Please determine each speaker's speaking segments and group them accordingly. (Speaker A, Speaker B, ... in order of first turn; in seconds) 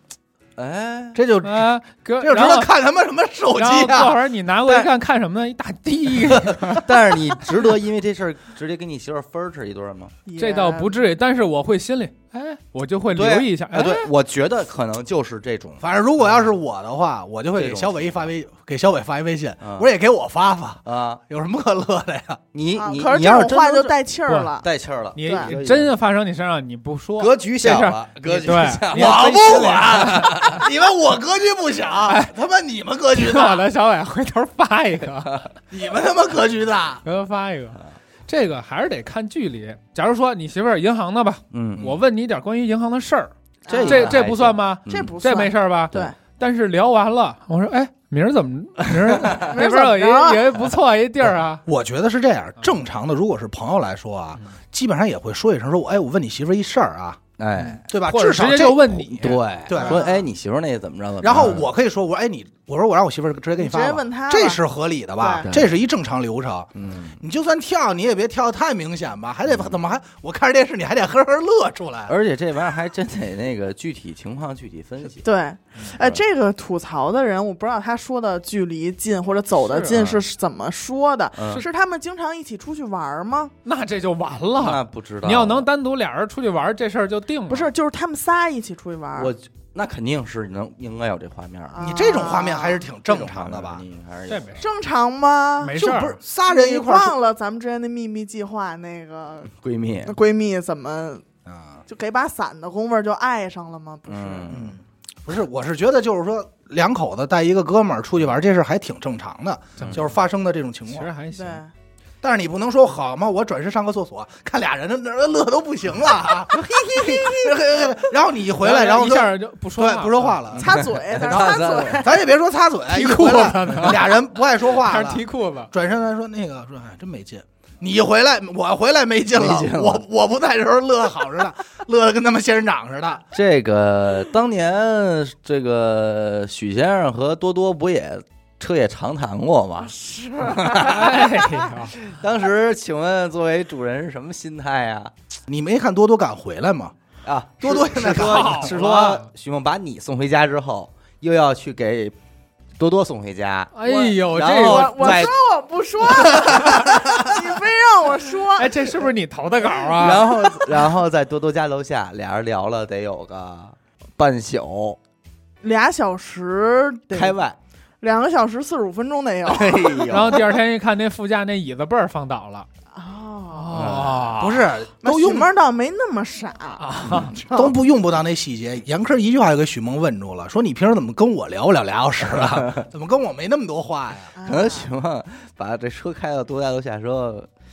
Speaker A: 0.6-1.2, 6.7-10.1, 13.1-15.8, 17.5-18.3, 19.6-19.9, 20.8-21.2, 22.5-24.0, 24.6-25.9, 27.2-30.6, 41.5-41.9, 43.7-45.1, 57.4-57.8, 59.2-61.7, 65.4-65.8, 66.7-67.2, 69.5-69.8, 72.1-75.2, 75.9-76.2, 79.7-80.2, 81.3-81.7, 84.6-85.7, 89.2-94.6, 99.5-100.1, 104.1-104.7, 109.8-110.1, 120.6-122.1, 129.3-130.0, 133.3-141.3, 141.9-145.1, 147.2-152.2, 152.8-155.3, 156.0-157.4, 159.9-165.0, 167.1-167.6, 169.4-170.5, 173.7-174.3, 182.2-182.8, 184.4-187.5
Speaker B: 1.1-1.7, 2.2-4.9, 6.3-6.7, 15.8-22.4, 28.9-33.7, 35.7-37.0, 51.6-57.2, 57.9-60.2, 61.2-72.1, 91.8-93.8, 95.8-97.2, 101.5-101.8, 104.5-111.1, 112.2-120.7, 122.0-133.2, 145.5-146.9, 147.6-148.7, 174.3-175.5, 177.1-184.3
Speaker C: 1.4-2.7, 3.5-7.1, 10.4-14.1, 24.3-24.5, 25.1-30.6, 32.0-32.3, 33.1-35.5, 37.0-51.6, 57.6-59.4, 83.6-87.7, 94.3-94.7, 95.6-96.2, 109.8-110.2, 110.9-111.6, 118.6-120.5, 122.9-125.7, 140.8-142.0, 148.0-149.3, 153.7-155.3, 158.6-160.3, 170.1-172.7, 173.5-174.7, 176.8-177.3
Speaker D: 10.2-11.0, 22.8-24.7, 25.2-25.5, 43.6-44.2, 44.9-46.1, 49.3-50.5, 59.7-60.2, 63.6-64.6, 65.2-65.5, 75.2-83.5, 87.5-89.3, 91.7-92.8, 94.6-95.8, 96.4-101.2, 101.8-104.5, 111.3-111.7, 116.8-117.5, 120.6-122.2, 139.8-141.5, 154.5-158.9, 165.6-167.4, 168.0-170.2, 172.9-173.9, 175.0-177.7, 184.3-184.9